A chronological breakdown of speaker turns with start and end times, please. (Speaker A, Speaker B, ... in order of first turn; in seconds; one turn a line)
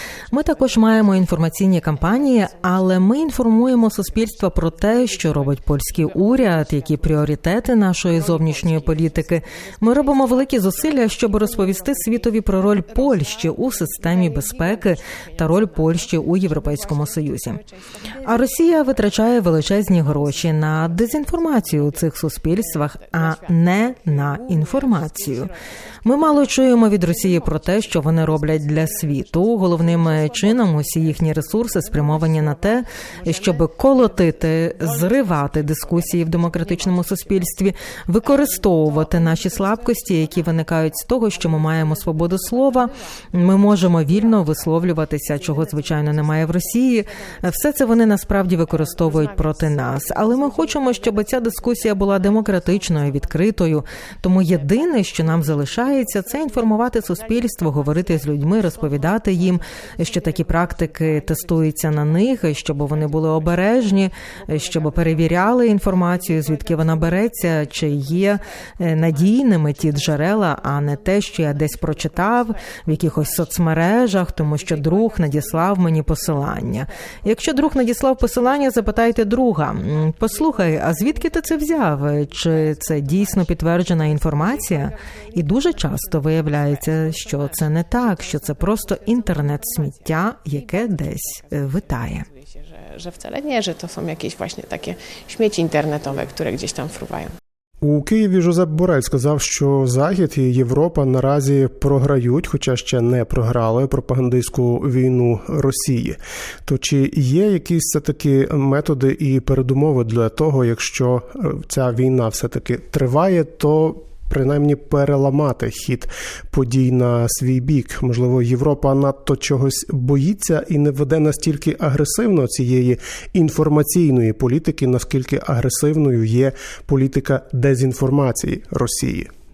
Speaker A: 0.3-7.3
Speaker B: 0.3-17.6
Speaker A: 8.0-37.6
Speaker B: 18.2-25.5
Speaker B: 26.0-92.3
Speaker A: 38.2-53.7
Speaker A: 54.5-97.3
Speaker C: 97.8-129.3